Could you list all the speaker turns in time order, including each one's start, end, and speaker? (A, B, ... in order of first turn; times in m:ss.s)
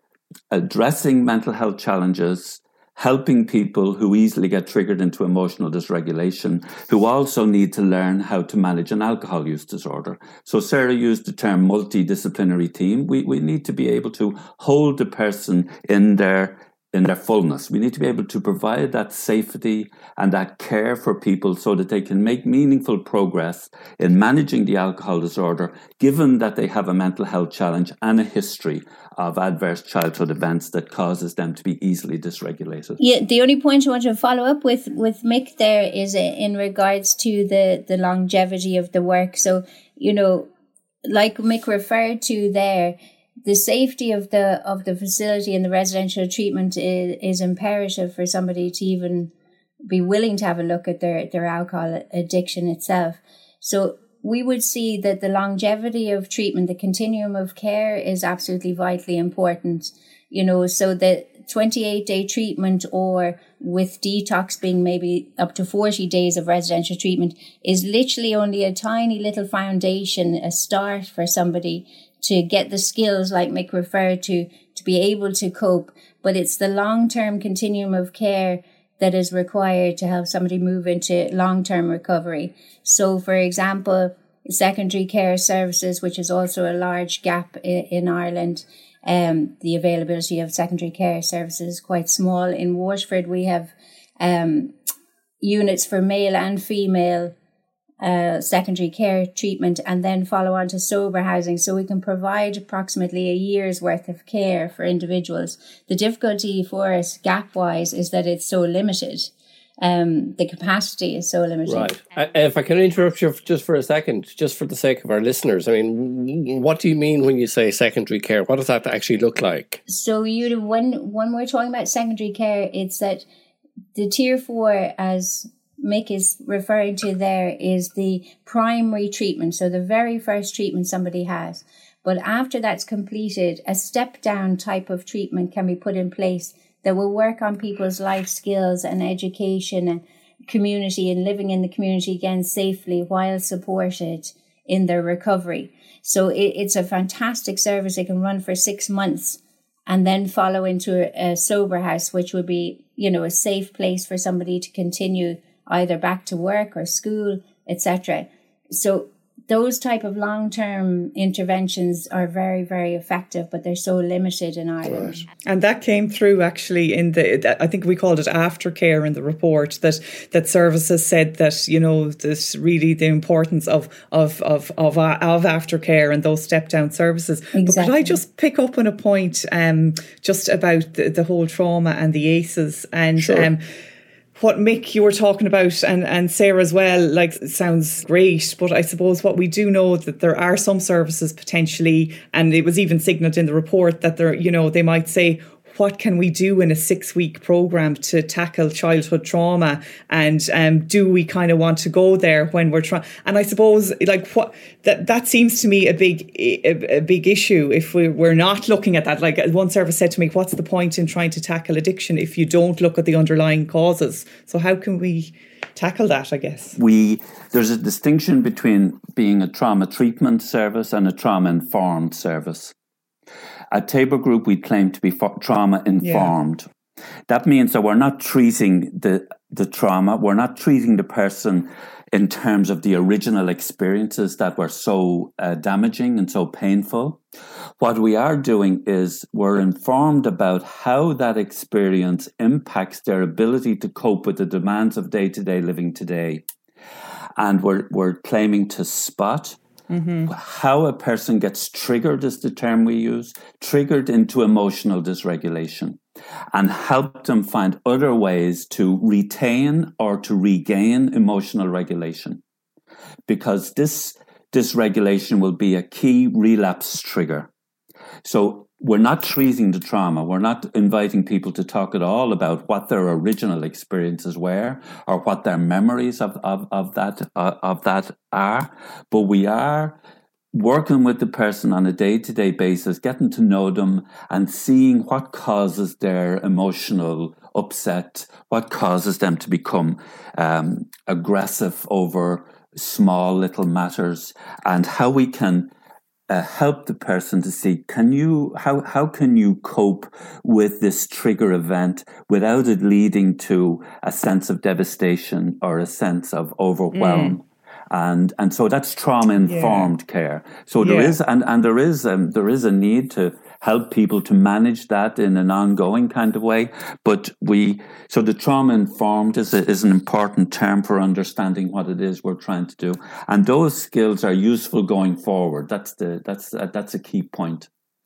0:00.5-0:33.0 A
0:33.0-0:40.5 B
0:41.0-0:49.3 B
0:49.9-1:34.7 B
1:35.4-1:37.3 B
1:38.0-1:51.9 B
1:51.7-1:59.8 C
1:59.9-2:03.3 B
2:04.0-2:45.2 B
2:45.4-3:03.6 D
2:57.6-2:58.2 B
3:03.2-3:03.5 C
3:04.4-3:36.8 D
3:36.8-3:42.8 A
3:43.7-3:46.7 A
3:46.0-3:46.3 D
3:47.3-3:57.2 A
3:57.8-4:06.4 A
4:07.4-4:09.6 A
4:09.9-4:10.3 D
4:10.3-4:16.0 A
4:16.5-4:22.4 A
4:23.3-4:27.5 A
4:28.2-4:40.0 A
4:40.5-4:55.7 A
4:56.3-5:27.7 A
5:06.9-5:07.4 D
5:09.5-5:09.9 D
5:10.8-5:11.2 D